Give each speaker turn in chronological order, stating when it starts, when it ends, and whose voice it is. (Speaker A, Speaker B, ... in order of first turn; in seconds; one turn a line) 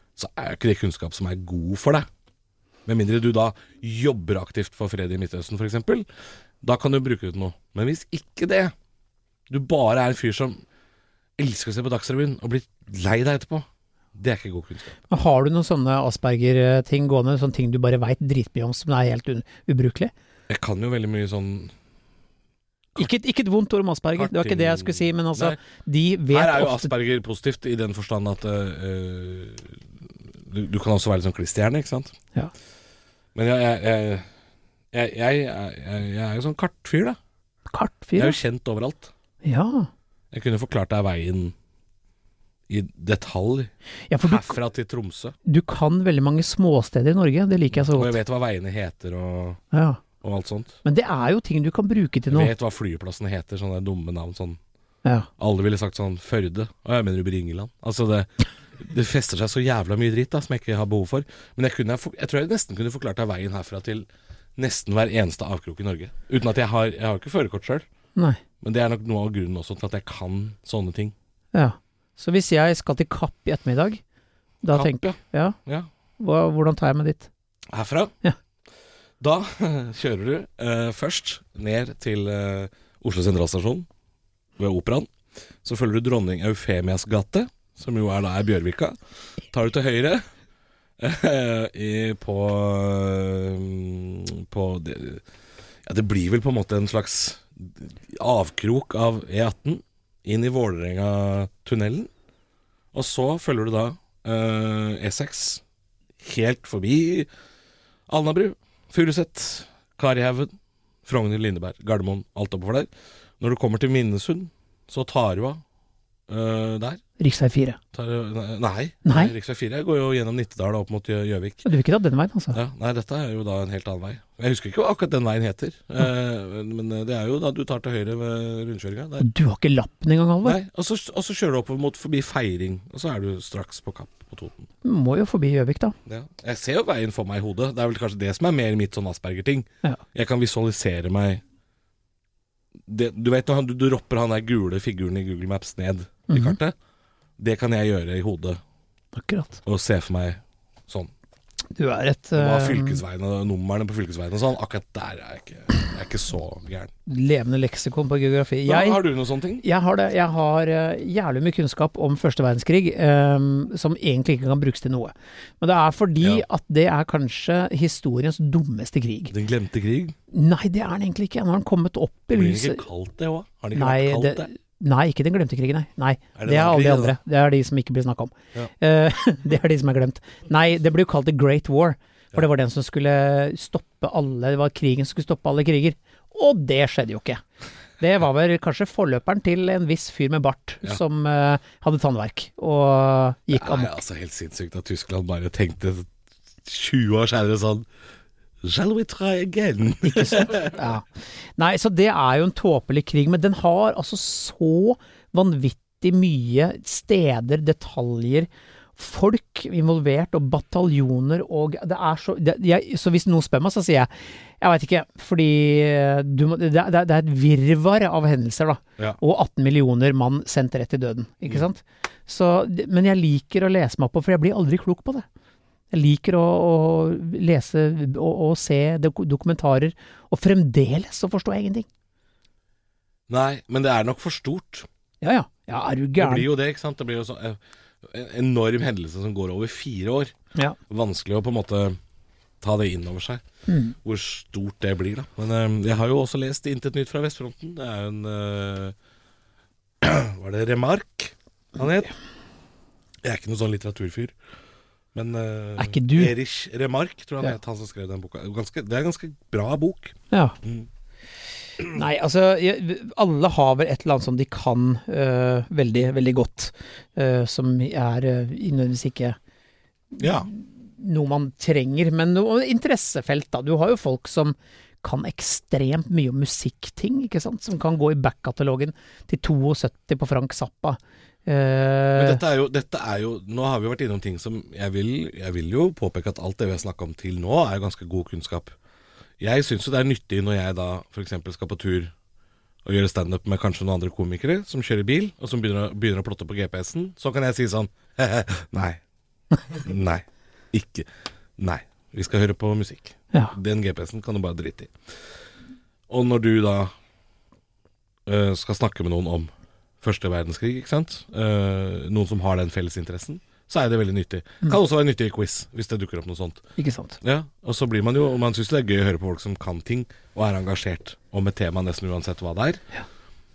Speaker A: 0.2-2.1
Speaker A: 2.9-6.1
Speaker A: 6.6-8.7
Speaker A: 9.5-10.6
Speaker A: 11.4-15.0
Speaker B: 15.1-20.1
Speaker A: 20.5-21.7
Speaker B: 23.0-26.9
Speaker A: 24.1-25.6
Speaker A: 26.3-29.8
Speaker A: 30.4-32.2
Speaker A: 33.4-34.3
Speaker A: 34.9-37.2
Speaker B: 37.7-38.4
Speaker A: 38.2-39.1
Speaker B: 39.4-39.9
Speaker A: 40.3-41.5
Speaker A: 42.7-43.7
Speaker B: 44.1-44.6
Speaker A: 44.2-45.4
Speaker B: 45.5-48.2
Speaker A: 47.8-49.6
Speaker B: 49.7-50.0
Speaker A: 50.2-50.8
Speaker B: 50.8-52.5
Speaker A: 52.3-54.6
Speaker A: 55.4-67.9
Speaker B: 68.2-68.4
Speaker A: 68.6-71.1
Speaker B: 71.5-74.0
Speaker B: 74.6-75.6
Speaker A: 74.7-75.9
Speaker B: 76.2-77.3
Speaker A: 77.7-78.1
Speaker A: 79.2-83.9
Speaker A: 84.6-85.1
Speaker A: 85.6-89.0
Speaker A: 89.5-90.2
Speaker A: 91.0-95.2
Speaker A: 95.9-102.1
Speaker A: 102.9-105.6
Speaker A: 106.2-107.3
Speaker A: 108.1-110.5
Speaker A: 111.0-112.9
Speaker A: 113.4-115.6
Speaker A: 116.3-117.0
Speaker B: 117.2-117.8
Speaker A: 117.9-121.7
Speaker B: 119.0-119.3
Speaker B: 121.7-122.6
Speaker A: 122.5-129.3
Speaker B: 129.2-130.6
Speaker A: 130.4-134.7
Speaker B: 134.8-136.0
Speaker A: 136.1-141.4
Speaker A: 142.9-146.8
Speaker B: 146.3-146.6
Speaker A: 147.4-148.6
Speaker B: 149.2-149.6
Speaker A: 149.7-151.1
Speaker B: 151.8-153.0
Speaker A: 152.3-156.9
Speaker B: 157.1-159.0
Speaker A: 158.7-159.6
Speaker B: 159.6-169.3
Speaker A: 169.3-170.2
Speaker B: 170.3-172.8
Speaker A: 172.3-174.5
Speaker B: 173.8-187.4
Speaker A: 176.3-177.2
Speaker B: 188.0-194.0
Speaker A: 193.5-196.1
Speaker A: 196.6-197.9
Speaker A: 198.6-200.8
Speaker B: 200.0-225.3
Speaker B: 225.9-231.9
Speaker A: 233.3-234.9
Speaker B: 235.2-236.5
Speaker A: 236.2-240.3
Speaker A: 240.9-242.0
Speaker A: 242.6-243.4
Speaker B: 243.7-244.0
Speaker A: 244.0-248.9
Speaker A: 250.0-252.1
Speaker A: 253.2-254.3
Speaker A: 255.1-260.9
Speaker B: 255.8-256.4
Speaker B: 260.3-260.6
Speaker B: 261.9-269.4
Speaker B: 270.1-282.4
Speaker A: 270.2-270.5
Speaker A: 282.1-288.8
Speaker A: 289.4-292.1
Speaker A: 292.9-299.0
Speaker A: 299.7-304.9
Speaker A: 306.1-306.9
Speaker A: 308.3-309.5
Speaker A: 310.0-316.6
Speaker B: 316.8-317.2
Speaker A: 317.2-322.8